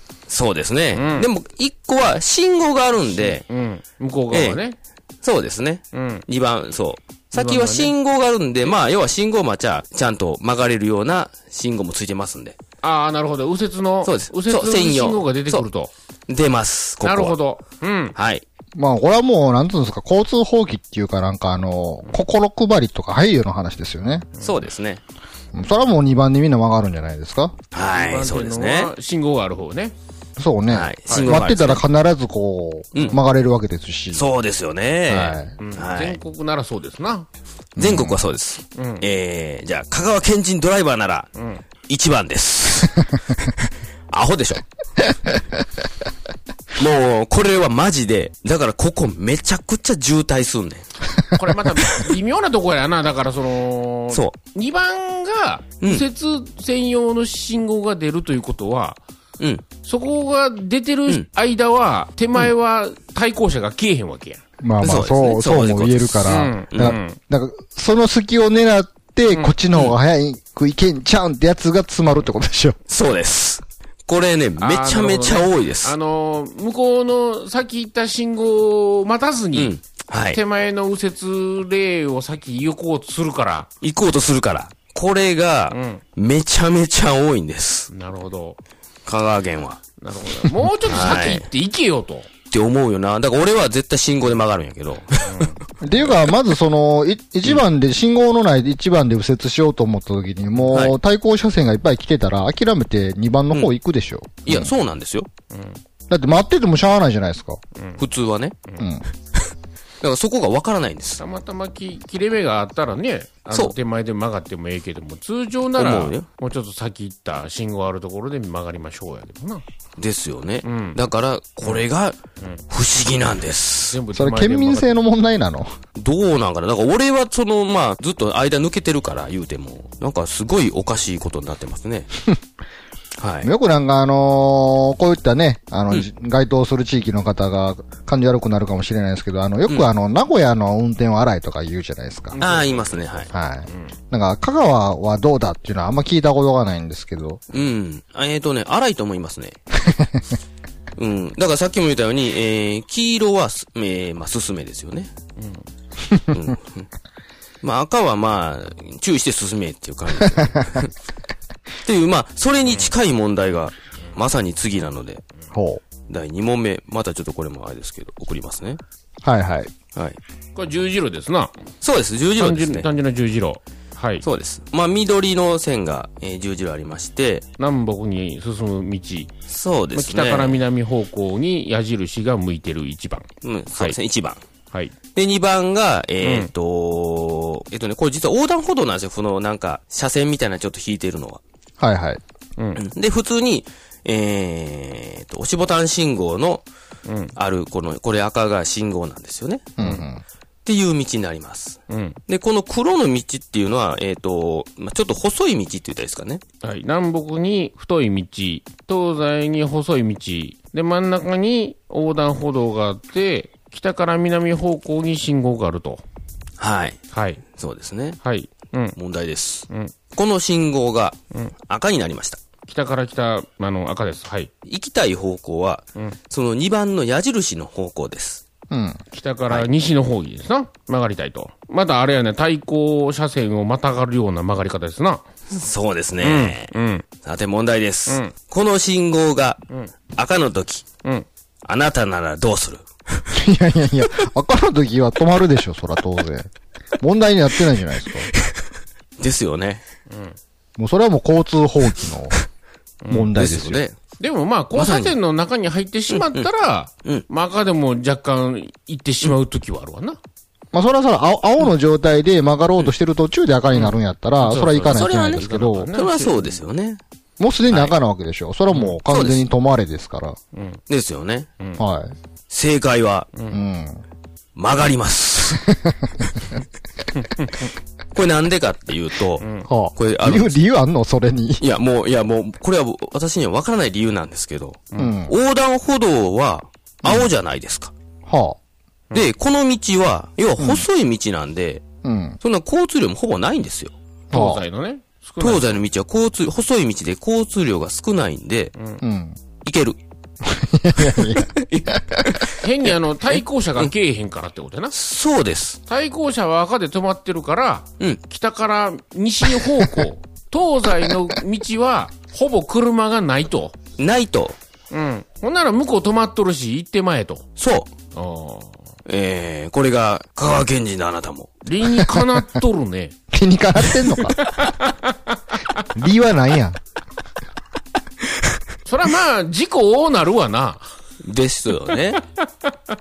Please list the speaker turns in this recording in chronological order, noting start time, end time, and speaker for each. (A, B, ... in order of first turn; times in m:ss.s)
0:00.3-0:03.4 A
0:00.9-0:01.3 B
0:03.1-0:04.8 B
0:04.3-0:04.6 A
0:05.2-0:12.6 A
0:05.9-0:06.2 B
0:07.3-0:07.9 B
0:12.8-0:15.9 B
0:14.0-0:15.6 A
0:16.3-0:17.4 A
0:17.0-0:18.1 B
0:18.2-0:18.4 A
0:18.7-0:24.3 C
0:24.4-0:25.0 A
0:25.5-0:27.5 C
0:27.7-0:28.9 A
0:27.9-0:29.9 B
0:30.4-0:34.2 C
0:30.7-0:31.8 A
0:31.1-0:31.4 B
0:34.1-0:36.2 A
0:35.1-0:35.5 C
0:35.6-0:37.3 B
0:37.8-0:38.2 C
0:37.8-0:41.3 A
0:38.8-0:39.0 B
0:41.4-0:41.6 B
0:41.9-0:43.1 A
0:44.1-0:44.6 A
0:46.8-0:50.9 A
0:51.3-0:59.0 B
0:59.4-0:59.6 A
0:59.8-1:04.4 B
1:04.6-1:12.8 C
1:04.8-1:07.0 A
1:06.2-1:07.2 B
1:09.3-1:09.5 B
1:12.9-1:15.9 A
1:14.6-1:19.7 B
1:19.5-1:20.4 A
1:20.3-1:23.7 B
1:23.8-1:27.9 A
1:25.7-1:26.0 B
1:27.9-1:28.6 B
1:29.0-1:29.8 A
1:30.0-1:32.3 B
1:30.8-1:31.5 A
1:32.5-1:35.5 A
1:35.2-1:35.6 B
1:35.8-1:44.7 C
1:40.7-1:41.0 A
1:44.4-1:45.3 A
1:45.5-1:45.8 B
1:46.1-1:47.6 C
1:48.0-1:48.6 A
1:48.8-1:49.0 C
1:50.0-1:51.2 A
1:51.2-1:59.6 B
1:55.8-1:56.2 A
2:00.0-2:02.2 A
2:00.6-2:01.0 B
2:02.7-2:04.0 A
2:03.9-2:04.9 B
2:04.1-2:05.8 C
2:06.0-2:12.1 A
2:13.2-2:13.5 A
2:13.4-2:22.4 C
2:22.3-2:23.9 B
2:22.4-2:23.3 A
2:23.3-2:27.4 C
2:27.5-2:29.6 A
2:31.0-2:35.1 A
2:35.4-2:35.6 B
2:36.3-2:36.9 A
2:37.6-2:40.9 A
2:41.8-2:45.2 A
2:45.5-2:45.8 C
2:46.1-2:48.8 A
2:49.2-2:49.7 C
2:50.5-2:51.5 B
2:51.8-2:52.9 A
2:52.4-2:54.2 B
2:54.2-2:57.4 A
2:57.6-2:59.3 B
2:59.5-3:00.6 A
2:59.9-3:04.0 B
3:03.4-3:04.4 A
3:05.1-3:11.4 A
3:06.2-3:06.5 B
3:11.8-3:12.2 C
3:12.6-3:12.8 B
3:12.8-3:16.6 A
3:17.1-3:17.3 B
3:17.4-3:19.7 A
3:19.8-3:20.2 C
3:20.6-3:26.4 A
3:21.9-3:22.2 B
3:26.6-3:36.0 B
3:36.6-3:37.0 A
3:37.1-3:37.4 B
3:37.5-3:38.2 A
3:38.2-3:39.0 B
3:39.0-3:42.4 A
3:42.7-3:44.5 B
3:44.6-3:48.4 A
3:48.7-3:49.0 C
3:49.1-3:55.2 B
3:55.5-3:56.7 A
3:56.2-3:57.0 B
3:57.2-3:59.6 A
3:58.1-3:58.3 B
4:00.2-4:00.8 A
4:01.6-4:03.3 A
4:03.3-4:08.3 C
4:08.3-4:08.6 A
4:09.2-4:09.8 A
4:10.1-4:10.4 B
4:10.8-4:12.4 C
4:13.0-4:13.3 B
4:13.1-4:13.8 C
4:13.3-4:14.0 A
4:14.2-4:20.2 B
4:14.7-4:15.2 A
4:16.1-4:16.5 A
4:20.7-4:25.9 C
4:23.7-4:26.5 B
4:24.9-4:27.0 A
4:27.4-4:30.4 C
4:27.7-4:28.0 A
4:29.1-4:29.4 A
4:30.5-4:30.8 B
4:30.9-4:31.5 A
4:31.8-4:32.1 C
4:32.5-4:33.3 A
4:33.5-4:34.0 C
4:34.6-4:35.7 A
4:37.2-4:37.5 B
4:38.1-4:40.6 A
4:39.4-4:39.7 B
4:39.7-4:41.6 C
4:41.6-4:47.9 A
4:45.0-4:45.3 C
4:47.0-4:47.3 C
4:48.2-4:48.6 C
4:49.1-4:51.8 A
4:50.6-4:50.8 C
4:52.0-4:52.4 C
4:52.4-4:53.9 A
4:54.3-4:54.6 C
4:54.3-4:55.8 B
4:55.4-4:58.7 A
4:59.0-4:59.4 C
4:59.6-5:00.0 A
5:00.4-5:02.2 C
5:01.0-5:02.6 A
5:02.6-5:04.9 B
5:04.9-5:05.8 A
5:05.9-5:13.7 B
5:14.0-5:14.6 A
5:14.9-5:17.4 B
5:17.6-5:17.9 A
5:18.1-5:18.8 B
5:19.0-5:21.6 A
5:21.6-5:23.1 B
5:23.3-5:24.4 C
5:24.2-5:25.8 B
5:25.9-5:26.8 C
5:28.8-5:30.8 B
5:31.2-5:32.2 A
5:32.2-5:32.7 B